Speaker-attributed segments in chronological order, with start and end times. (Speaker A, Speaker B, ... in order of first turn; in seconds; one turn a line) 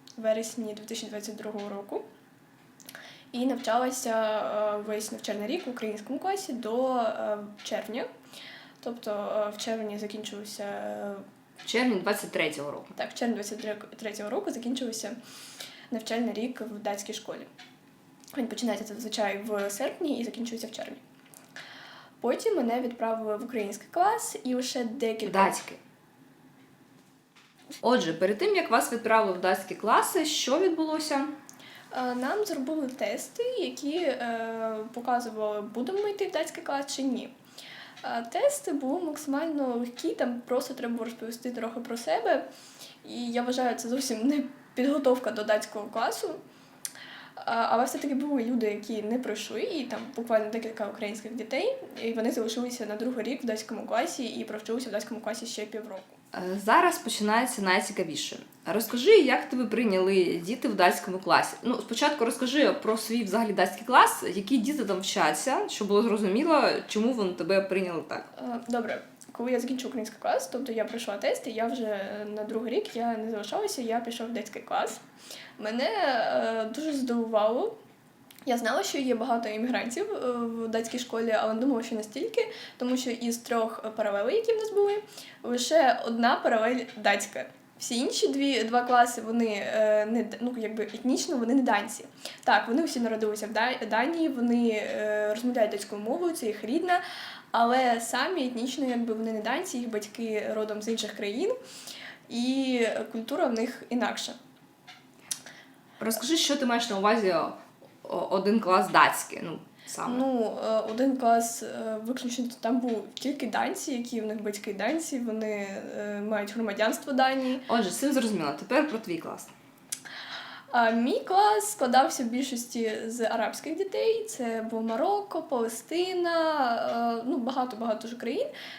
Speaker A: 0.2-2.1
Speaker A: 3.3-8.1
Speaker A: 8.8-11.3
Speaker B: 11.6-12.9
Speaker A: 12.9-15.2
Speaker A: 15.9-17.5
Speaker A: 18.3-21.0
Speaker A: 22.2-25.5
Speaker B: 25.3-25.8
Speaker B: 27.8-31.4
Speaker A: 31.9-37.3
Speaker A: 38.0-42.5
Speaker A: 43.0-46.4
Speaker A: 47.4-56.1
Speaker B: 56.3-68.3
Speaker A: 68.4-75.0
Speaker A: 75.6-77.8
Speaker A: 78.5-97.0
Speaker A: 97.5-101.5
Speaker A: 102.3-104.4
Speaker B: 106.0-110.2
Speaker A: 110.0-117.7
Speaker B: 117.7-119.5
Speaker A: 120.7-128.5